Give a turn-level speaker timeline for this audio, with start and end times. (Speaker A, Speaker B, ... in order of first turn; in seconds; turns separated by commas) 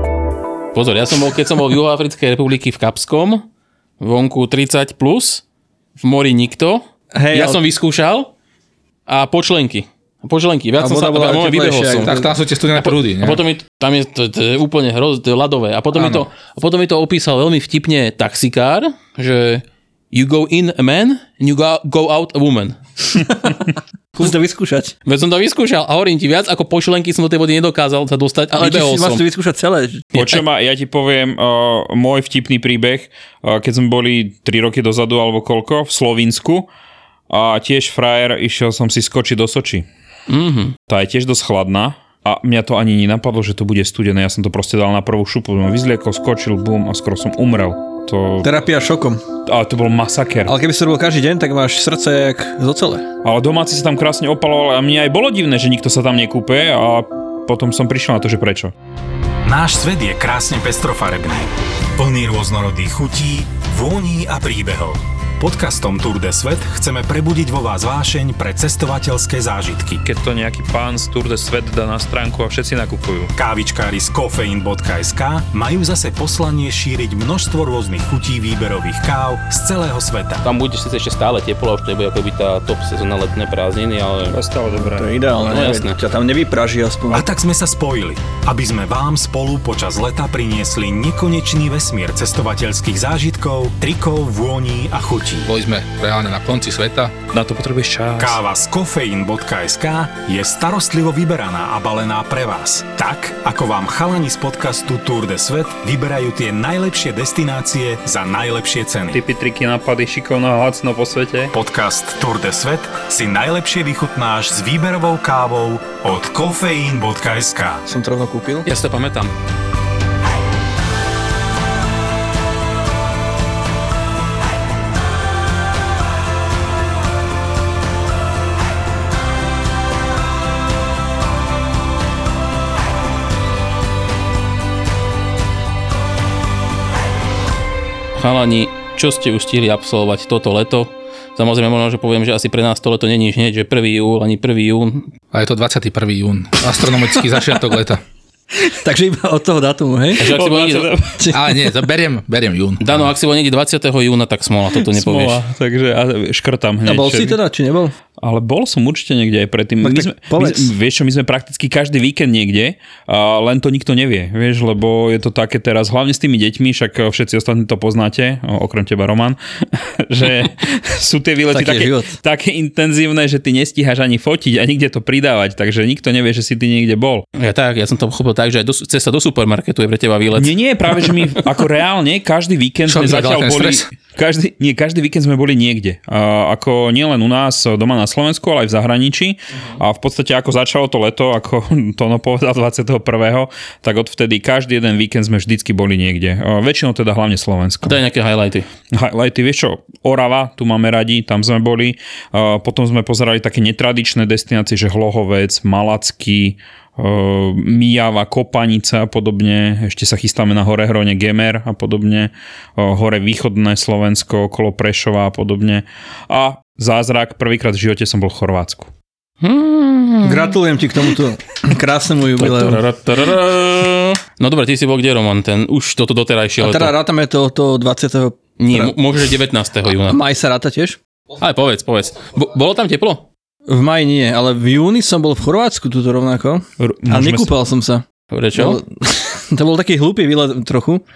Speaker A: 0.7-3.5, Speaker A: 4.0-5.4, Speaker A: 6.0-8.3, Speaker B: 7.1-7.6, Speaker A: 9.1-12.2, Speaker B: 10.8-12.3, Speaker C: 12.0-13.4, Speaker A: 12.8-23.2, Speaker B: 23.2-24.9, Speaker A: 25.1-29.2, Speaker B: 28.5-30.2, Speaker A: 30.1-30.4, Speaker D: 30.2-36.7, Speaker D: 37.3-39.9, Speaker A: 40.3-40.8, Speaker D: 40.9-48.5, Speaker B: 48.4-49.2, Speaker D: 49.5-50.5, Speaker B: 50.5-53.1, Speaker D: 53.2-58.7, Speaker E: 59.5-70.0, Speaker D: 70.0-73.3, Speaker E: 73.4-80.5, Speaker A: 80.4-84.4, Speaker D: 84.3-85.1, Speaker B: 84.8-87.3, Speaker A: 85.4-86.0, Speaker E: 87.1-95.5, Speaker C: 95.5-97.2, Speaker D: 97.3-98.4, Speaker E: 98.2-109.2, Speaker D: 109.1-111.5, Speaker E: 111.5-117.8, Speaker B: 117.9-118.7, Speaker A: 118.7-119.3, Speaker A: 138.2-145.1, Speaker C: 145.3-148.0, Speaker B: 148.8-150.3, Speaker A: 150.2-150.9, Speaker D: 150.2-151.3, Speaker B: 151.2-151.5, Speaker C: 151.3-153.1, Speaker A: 152.8-155.4, Speaker D: 154.9-157.4, Speaker B: 156.8-157.9, Speaker D: 158.2-177.2, Speaker B: 159.8-160.7, Speaker B: 171.5-172.1, Speaker A: 177.4-181.0, Speaker D: 180.4-198.0, Speaker C: 182.9-183.8, Speaker A: 197.8-198.7, Speaker D: 198.9-218.9, Speaker A: 219.4-220.5, Speaker B: 220.2-222.8, Speaker A: 222.4-226.9, Speaker B: 226.6-229.0, Speaker A: 228.6-230.2, Speaker B: 229.8-231.0, Speaker A: 231.4-233.3, Speaker B: 233.7-241.0, Speaker D: 236.8-237.5, Speaker A: 238.3-238.8